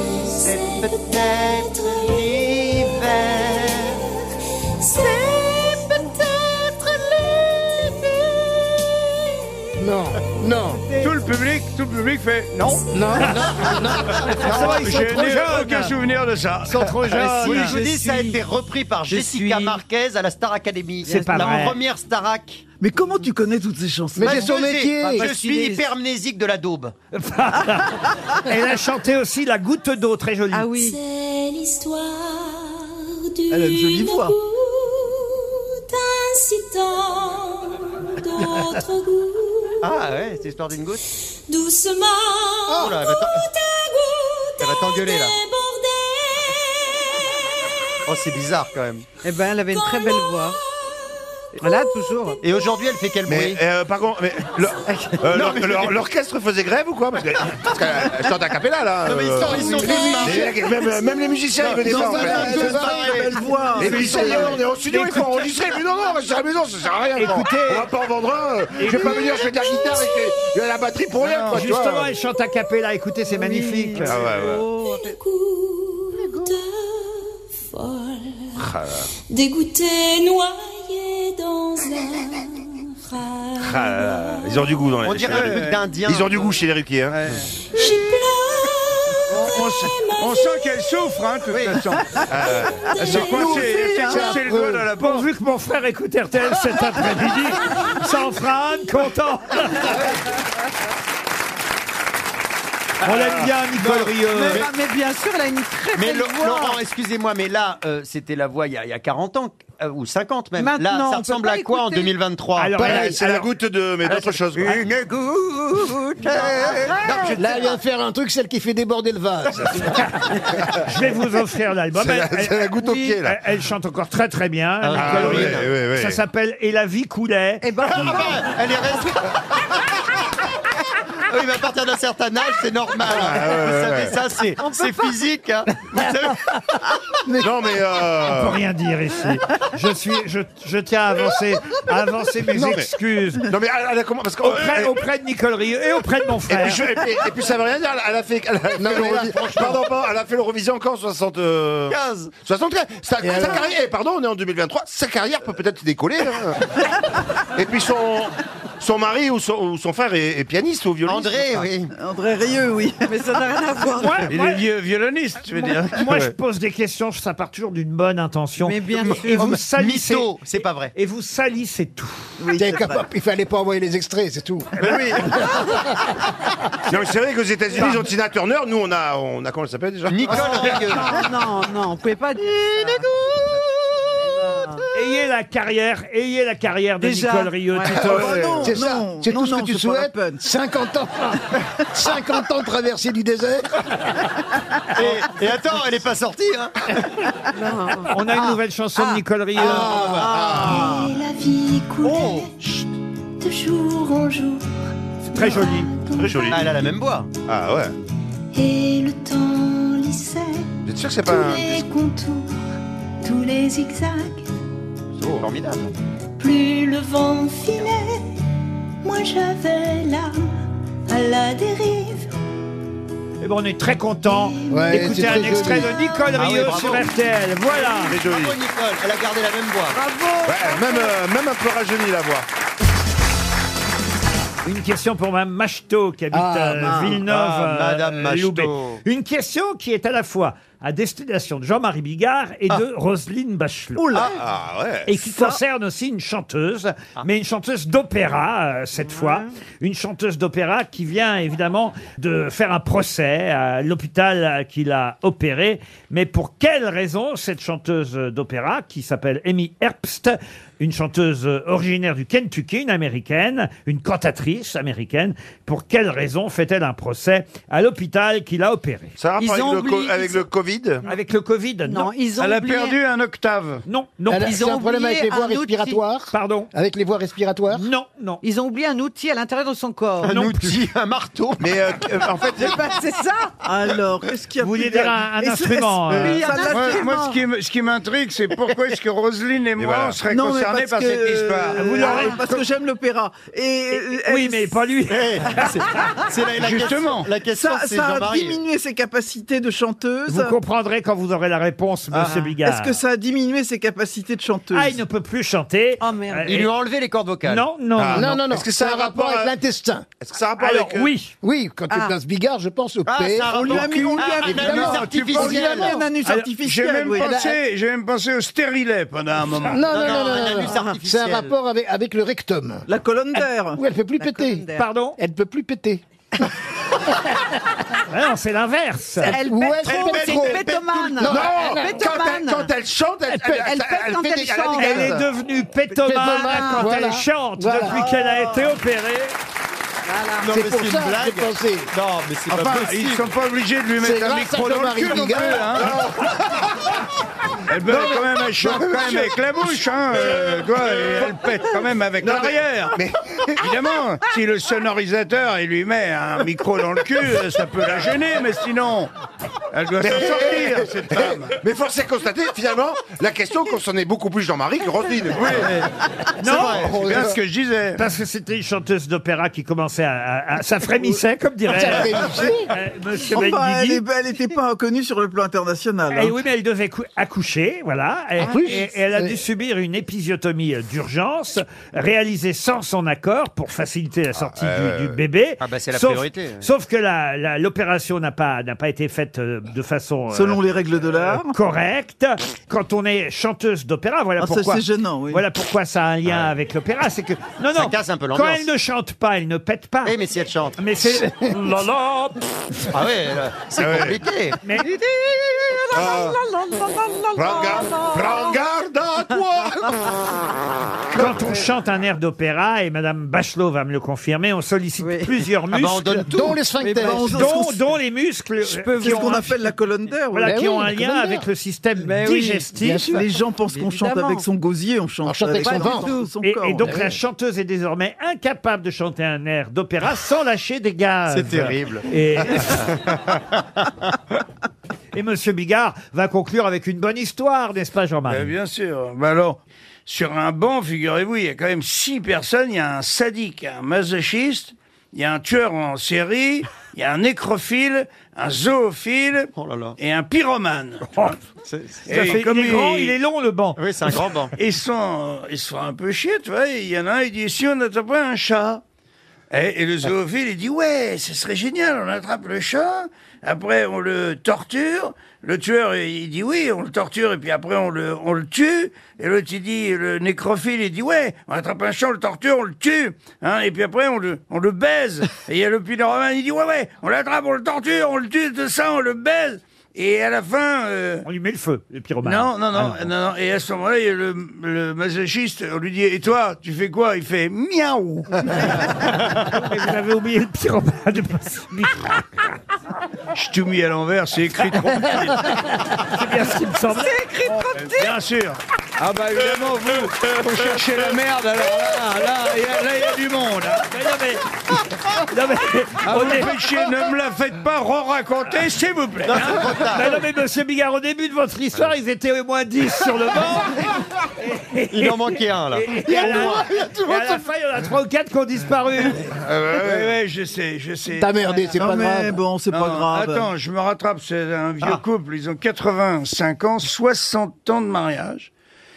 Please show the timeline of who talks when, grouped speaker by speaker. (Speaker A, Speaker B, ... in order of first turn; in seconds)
Speaker A: 0.1-4.0, 4.8-9.5, 12.7-13.8, 30.7-40.1, 41.5-47.0, 49.7-50.6, 51.6-52.4, 61.1-61.4, 69.0-70.6, 74.7-78.7, 79.3-84.9, 87.7-91.1, 92.7-94.3, 97.6-99.0, 200.5-202.8, 203.4-204.7, 205.3-206.9, 208.5-210.7, 211.2-212.6, 213.2-214.5, 216.4-218.4, 219.0-222.3, 224.2-225.2, 225.8-226.3
Speaker B: 0.3-4.0, 17.1-22.6, 24.2-26.9, 39.8-41.0, 42.7-43.4, 44.6-45.4, 48.0-49.0, 52.4-53.6, 59.0-60.6, 62.5-63.3, 85.0-86.6, 91.5-91.8, 103.0-104.7, 105.9-113.1, 114.1-117.8, 124.8-125.7, 127.8-129.5, 131.2-136.4, 151.9-152.3, 161.0-161.9, 169.0-170.9, 174.8-175.2, 180.1-181.2, 194.9-197.2, 199.6-200.8, 202.0-202.5, 206.5-207.3, 215.2-215.9, 226.3-227.1, 228.0-230.0, 237.2-239.0, 280.2-281.8, 295.1-298.6, 306.5-307.6, 313.1-315.9, 319.9-321.5, 329.9-331.1, 340.4-343.2, 365.5-365.9, 366.4-366.9, 385.6-386.7, 397.7-398.6, 400.0-400.8, 402.9-404.6, 415.7-416.6, 431.3-433.1, 449.6-450.0, 451.6-452.4, 453.8-454.5, 509.2-510.1, 514.9-516.7
Speaker C: 9.8-10.8, 12.9-15.2, 24.1-25.3, 59.6-60.5, 61.6-64.6, 93.2-94.9, 112.8-113.1, 117.3-120.0, 148.8-149.8, 153.2-153.7, 172.6-174.7, 175.4-175.8, 188.2-193.7, 199.6-200.3, 224.7-225.9, 236.3-237.2, 274.3-277.9, 308.1-310.1, 311.4-315.1, 317.2-317.6, 319.6-322.8, 323.7-326.0, 329.2-332.1, 334.1-335.2, 335.9-338.0, 340.4-341.9, 344.0-346.1, 348.6-349.3, 366.8-367.3, 371.7-372.7, 378.4-379.4, 416.3-417.5, 420.4-421.4, 422.7-423.2, 425.2-426.1, 426.8-427.2, 521.1-522.4
Speaker D: 10.7-11.1, 17.6-18.4, 19.1-19.8, 21.1-21.4, 25.0-25.8, 30.5-31.0, 49.2-50.6, 51.6-52.4, 73.3-75.2, 104.4-106.8, 110.6-112.1, 116.6-117.2, 127.6-128.5, 163.0-164.3, 168.6-169.6, 180.3-183.1, 184.2-184.8, 187.0-188.3, 197.5-198.1, 230.0-230.7, 249.0-249.5, 269.4-270.4, 271.9-273.0, 274.4-276.0, 278.4-280.4, 282.6-283.5, 286.2-287.4, 291.8-292.4, 306.0-306.5, 324.2-324.9, 329.2-332.7, 333.3-335.1, 336.3-336.9, 338.0-338.4, 340.1-340.5, 404.8-408.6, 415.0-415.3, 416.8-417.3, 418.6-419.4, 422.0-422.7, 423.7-424.4, 425.6-426.3, 496.9-498.1
Speaker E: 11.0-12.8, 14.5-17.7, 71.2-71.7, 85.3-85.8, 87.1-87.4, 89.3-92.1, 93.0-95.2, 164.3-166.1, 272.4-273.8, 286.7-292.4, 296.6-297.3, 314.6-319.8, 342.5-345.9, 347.7-353.0, 353.6-359.1, 359.7-361.6, 365.4-365.7, 366.6-368.0, 438.3-451.3, 452.1-453.1, 454.6-458.8, 459.5-481.2, 482.2-488.6, 493.3-495.4, 497.7-503.9, 506.0-509.7, 519.8-521.3, 522.7-528.5
Speaker F: 14.3-15.9, 16.6-17.8, 19.1-19.5, 21.1-21.8, 27.1-30.7, 64.9-65.5, 67.2-67.9, 68.8-69.2, 71.5-74.3, 95.0-100.0, 103.0-104.7, 112.5-113.5, 120.8-127.9, 138.2-143.5, 144.4-146.9, 163.9-164.7, 165.5-172.3, 184.9-188.5, 198.1-199.9, 205.3-205.9, 223.4-228.2, 234.6-244.2, 245.1-269.1, 271.1-272.1, 273.8-274.5, 276.3-276.7, 277.7-278.4, 280.3-280.8, 284.6-286.7, 291.8-292.4, 293.9-295.8, 300.3-303.0, 304.7-306.7, 307.4-308.4, 310.6-311.3, 324.8-325.2, 328.1-329.4, 334.7-339.3, 366.4-367.1, 367.9-374.0, 376.1-400.2, 400.8-402.3, 404.6-404.9, 411.1-416.3, 416.8-419.8, 420.3-423.2, 426.4-432.9, 435.1-438.5, 452.1-454.2, 481.2-483.1, 489.5-492.5, 495.9-497.2, 503.9-506.6, 509.8-519.3
Speaker G: 22.8-24.6, 33.5-34.3, 61.7-64.6, 93.4-94.2, 161.9-163.5, 172.4-173.1, 187.0-190.4, 244.0-244.4, 245.2-245.6, 283.6-287.2, 290.3-294.9, 297.4-300.6, 302.1-305.0, 313.5-317.4, 322.9-323.8, 337.9-338.6, 373.2-376.4, 390.3-391.5, 394.4-395.4, 416.9-417.9, 418.8-420.6, 422.9-427.1, 521.7-523.5
Speaker H: 53.2-62.9, 63.7-72.1, 74.0-74.7, 78.6-79.1, 83.6-87.3, 92.3-93.2, 112.8-114.8, 116.3-117.4, 121.9-123.4, 124.9-126.2, 133.0-134.2, 137.4-138.6, 142.5-142.9, 143.4-145.1, 146.4-156.6, 157.5-161.7, 176.9-180.9, 187.9-188.4, 200.2-201.1, 206.1-206.7, 207.5-207.9, 210.8-211.8, 215.2-215.5, 228.0-228.6, 230.4-232.4, 244.2-245.2, 269.2-271.1, 281.6-282.8, 289.8-290.2, 307.9-309.5, 310.2-311.1, 331.2-335.2, 348.7-351.3, 352.2-353.7, 360.0-365.7, 384.3-385.2, 403.8-404.2, 405.9-406.4, 407.3-410.1, 411.1-411.5, 516.4-517.3, 519.4-520.2